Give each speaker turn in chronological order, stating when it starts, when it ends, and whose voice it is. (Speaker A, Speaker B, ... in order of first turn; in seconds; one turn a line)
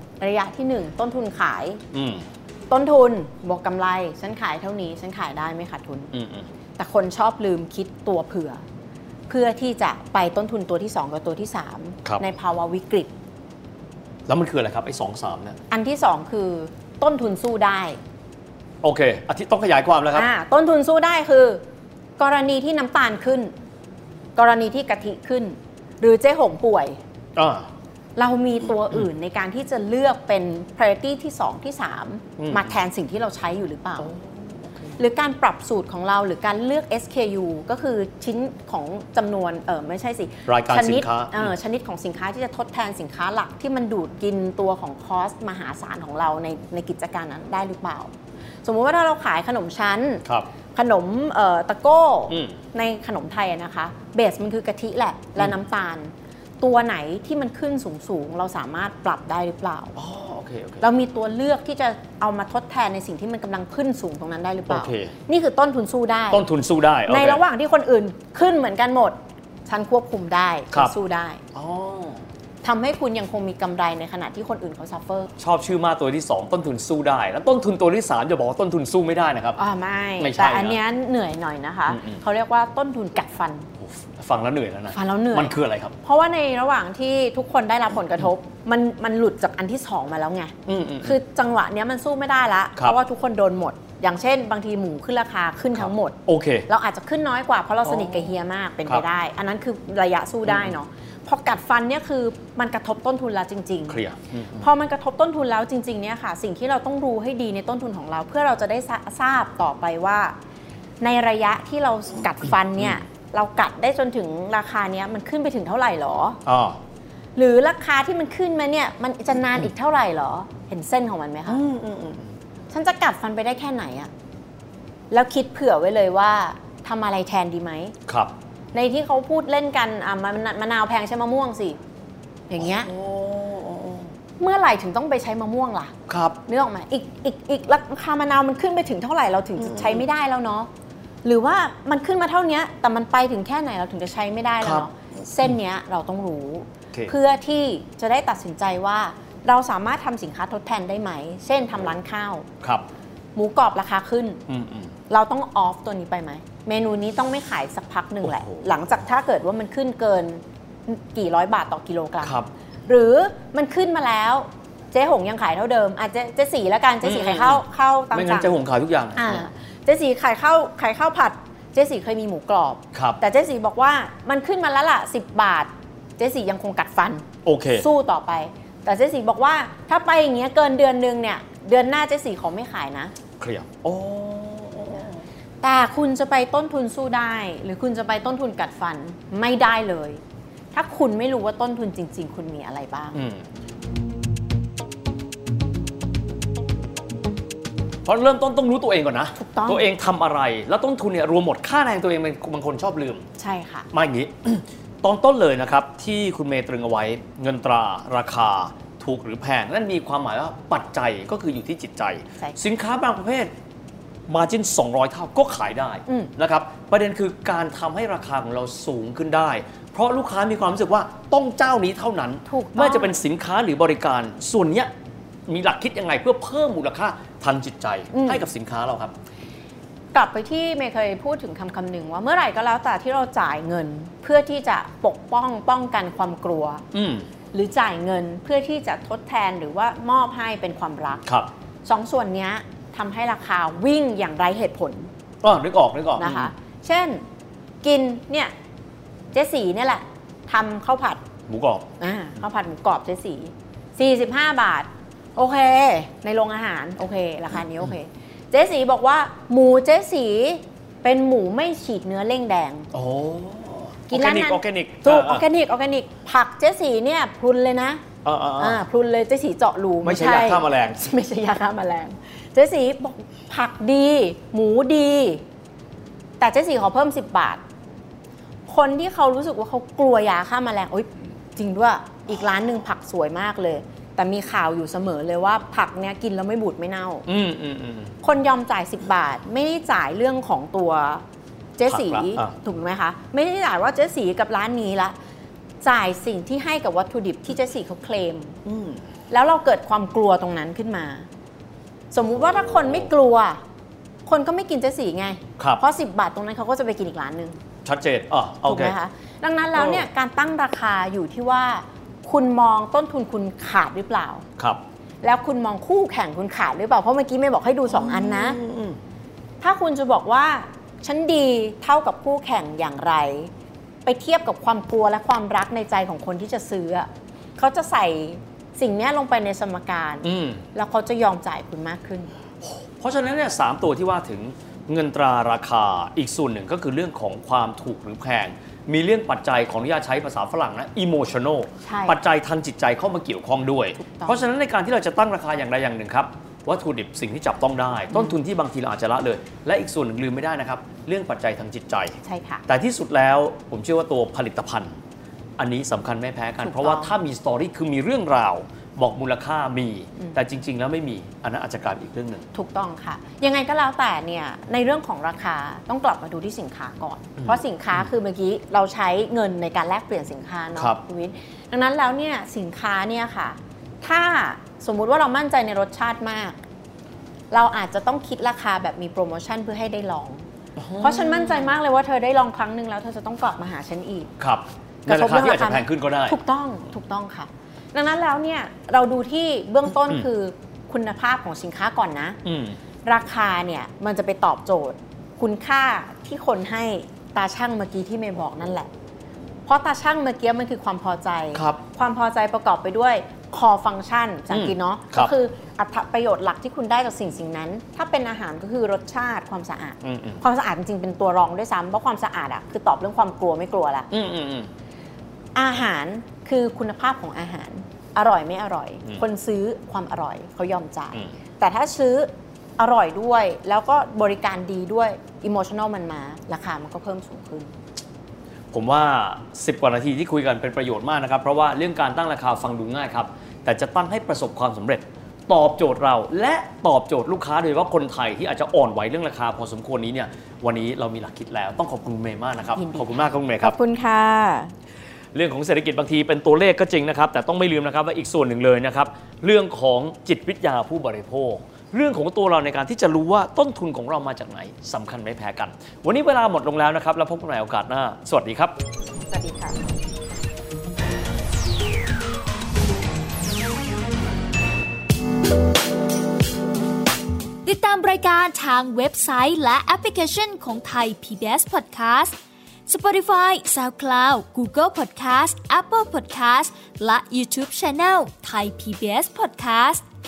Speaker A: 0.2-1.8
Speaker B: 1.9-2.2
Speaker A: 2.7-6.1
Speaker B: 6.1-6.5
Speaker A: 6.8-8.6
Speaker A: 9.3-13.1
Speaker B: 14.3-15.6
Speaker A: 15.7-18.0
Speaker B: 18.8-20.3
Speaker A: 20.1-21.6
Speaker A: 22.2-23.5
Speaker A: 24.4-27.0
Speaker B: 27.4-27.7
Speaker A: 28.1-34.1
Speaker B: 32.4-32.7
Speaker B: 34.0-35.0
Speaker A: 35.0-48.1
Speaker B: 40.5-41.5
Speaker A: 48.6-60.0
Speaker B: 52.3-52.6
Speaker B: 60.0-60.9
Speaker A: 60.8-66.5
Speaker B: 64.7-65.1
Speaker B: 66.3-67.4
Speaker A: 67.1-69.2
Speaker A: 69.7-71.4
Speaker B: 71.5-72.2
Speaker A: 72.6-75.3
Speaker B: 75.4-79.6
Speaker A: 79.6-83.7
Speaker B: 80.2-80.8
Speaker B: 81.9-82.2
Speaker B: 83.8-86.0
Speaker A: 84.9-104.0
Speaker B: 90.7-91.2
Speaker B: 95.8-96.7
Speaker B: 97.8-98.3
Speaker B: 100.5-100.7
Speaker B: 103.9-104.7
Speaker A: 104.6-110.3
Speaker A: 111.0-116.4
Speaker B: 116.4-116.8
Speaker A: 117.3-121.6
Speaker B: 121.5-122.3
Speaker A: 122.7-124.1
Speaker A: 125.1-127.9
Speaker B: 128.1-128.3
Speaker A: 128.7-131.8
Speaker A: 132.5-132.9
Speaker B: 132.6-134.1
Speaker A: 134.4-135.9
Speaker B: 136.1-136.4
Speaker A: 136.4-140.7
Speaker B: 139.6-140.0
Speaker A: 141.2-152.5
Speaker B: 144.6-144.9
Speaker A: 153.3-154.4
Speaker B: 154.5-154.9
Speaker A: 155.1-162.3
Speaker B: 162.2-162.5
Speaker A: 162.9-168.5
Speaker B: 167.0-169.5
Speaker A: 169.1-183.1
Speaker B: 172.9-173.2
Speaker B: 177.4-177.9
Speaker B: 183.4-185.2
Speaker A: 185.6-190.2
Speaker A: 190.7-193.2
Speaker B: 193.1-193.4
Speaker B: 198.0-203.2
Speaker A: 199.3-199.9
Speaker A: 203.4-203.9
Speaker B: 203.9-213.5
Speaker B: 214.3-224.9
Speaker A: 216.1-216.3
Speaker A: 222.4-223.2
Speaker B: 225.5-229.1
Speaker A: 228.1-228.4
Speaker A: 230.1-236.8
Speaker B: 236.9-237.2
Speaker A: 237.5-241.2
Speaker A: 241.8-245.1
Speaker B: 245.4-246.5
Speaker A: 246.2-247.2
Speaker A: 247.8-248.5
Speaker A: 249.3-251.2
Speaker B: 251.5-251.9
Speaker A: 252.0-262.9
Speaker B: 262.9-265.4
Speaker A: 264.1-268.0
Speaker B: 268.2-268.8
Speaker A: 268.6-275.4
Speaker B: 270.0-271.1
Speaker A: 276.4-277.6
Speaker A: 278.7-287.2
Speaker B: 287.3-288.1
Speaker A: 288.2-291.2
Speaker A: 291.8-295.1
Speaker B: 291.9-292.5
Speaker A: 295.8-298.6
Speaker B: 298.6-299.0
Speaker A: 299.3-301.3
Speaker A: 302.1-303.6
Speaker A: 304.2-307.6
Speaker B: 307.8-308.9
Speaker A: 308.6-314.4
Speaker B: 309.8-310.1
Speaker A: 315.2-318.6
Speaker B: 317.9-319.0
Speaker A: 319.6-323.5
Speaker A: 324.0-332.3
Speaker B: 330.2-330.6
Speaker B: 332.6-352.2
Speaker A: 341.8-342.2
Speaker A: 344.0-344.4
Speaker A: 352.2-352.6
Speaker B: 352.7-354.9
Speaker B: 355.6-362.4
Speaker A: 356.6-357.1
Speaker A: 362.5-376.6
Speaker A: 377.5-384.3
Speaker B: 380.8-381.7
Speaker B: 384.4-386.4
Speaker A: 385.1-392.4
Speaker B: 392.4-392.8
Speaker A: 393.0-398.9
Speaker A: 399.6-414.1
Speaker B: 401.5-401.8
Speaker B: 404.5-405.3
Speaker B: 410.0-410.4
Speaker B: 414.1-414.7
Speaker A: 415.5-427.7
Speaker B: 428.7-443.8
Speaker A: 442.7-444.7
Speaker B: 445.3-458.7
Speaker A: 459.3-459.8
Speaker C: 467.6-472.3
Speaker C: 472.9-480.0